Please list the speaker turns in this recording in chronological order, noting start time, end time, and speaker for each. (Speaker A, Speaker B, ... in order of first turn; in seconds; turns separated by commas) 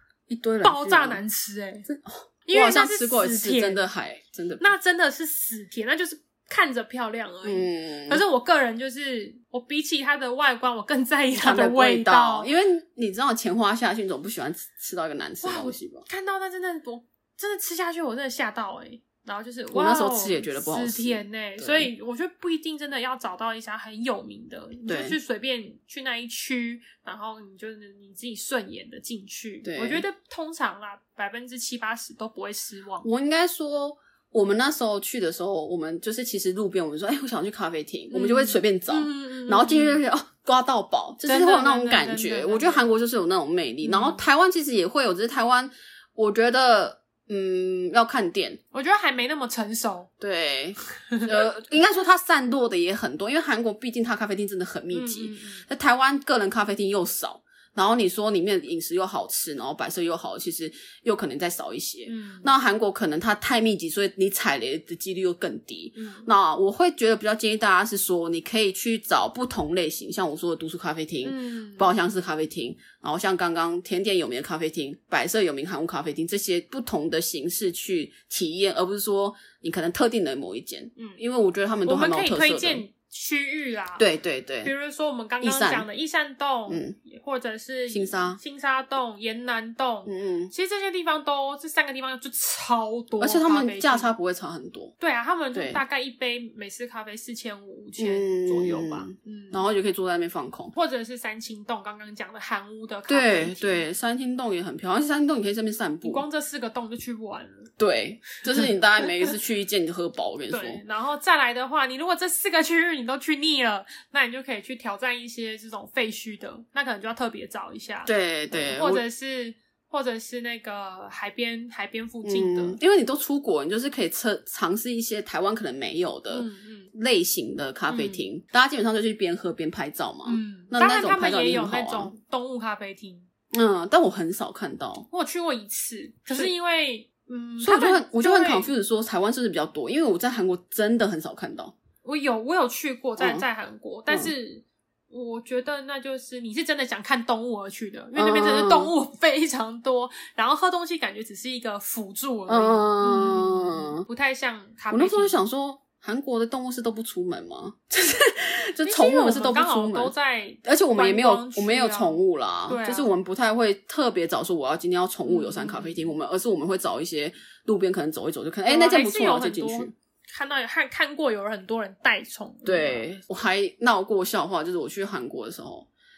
Speaker A: 0.3-1.2, Speaker B: 0.6-1.9, Speaker A: 1.9-4.7, Speaker B: 2.5-3.8, Speaker B: 4.6-12.5, Speaker A: 7.4-8.2, Speaker A: 11.4-16.1, Speaker B: 15.4-33.1, Speaker A: 19.7-21.9, Speaker A: 24.9-25.2, Speaker A: 29.6-30.0, Speaker A: 33.0-48.6, Speaker B: 38.1-40.0, Speaker B: 41.2-42.8, Speaker B: 43.8-44.2, Speaker B: 48.7-50.1, Speaker A: 50.2-82.8, Speaker B: 54.9-55.6, Speaker B: 62.1-62.5, Speaker B: 66.0-66.3, Speaker B: 71.2-71.9, Speaker B: 81.9-84.1, Speaker A: 84.0-84.7, Speaker B: 84.6-94.1, Speaker A: 85.4-85.9, Speaker A: 86.7-87.0, Speaker A: 87.9-88.4, Speaker A: 90.1-90.5, Speaker A: 93.2-94.9, Speaker B: 95.0-99.7, Speaker A: 95.5-95.8, Speaker A: 98.0-100.7, Speaker B: 100.7-103.8, Speaker A: 103.1-106.2, Speaker B: 106.0-107.7, Speaker A: 107.8-110.8, Speaker B: 110.5-122.8, Speaker A: 118.1-119.0, Speaker A: 122.2-132.1, Speaker B: 126.3-126.9, Speaker B: 127.9-128.2, Speaker B: 130.2-133.3, Speaker A: 133.5-135.1, Speaker B: 135.1-138.7, Speaker A: 137.6-141.7, Speaker B: 142.0-155.4, Speaker A: 143.2-143.4, Speaker A: 148.2-148.9, Speaker A: 152.5-154.1, Speaker A: 154.9-160.1, Speaker B: 158.8-163.1, Speaker A: 160.6-169.9, Speaker B: 165.2-166.1, Speaker B: 168.7-173.1, Speaker A: 172.7-175.9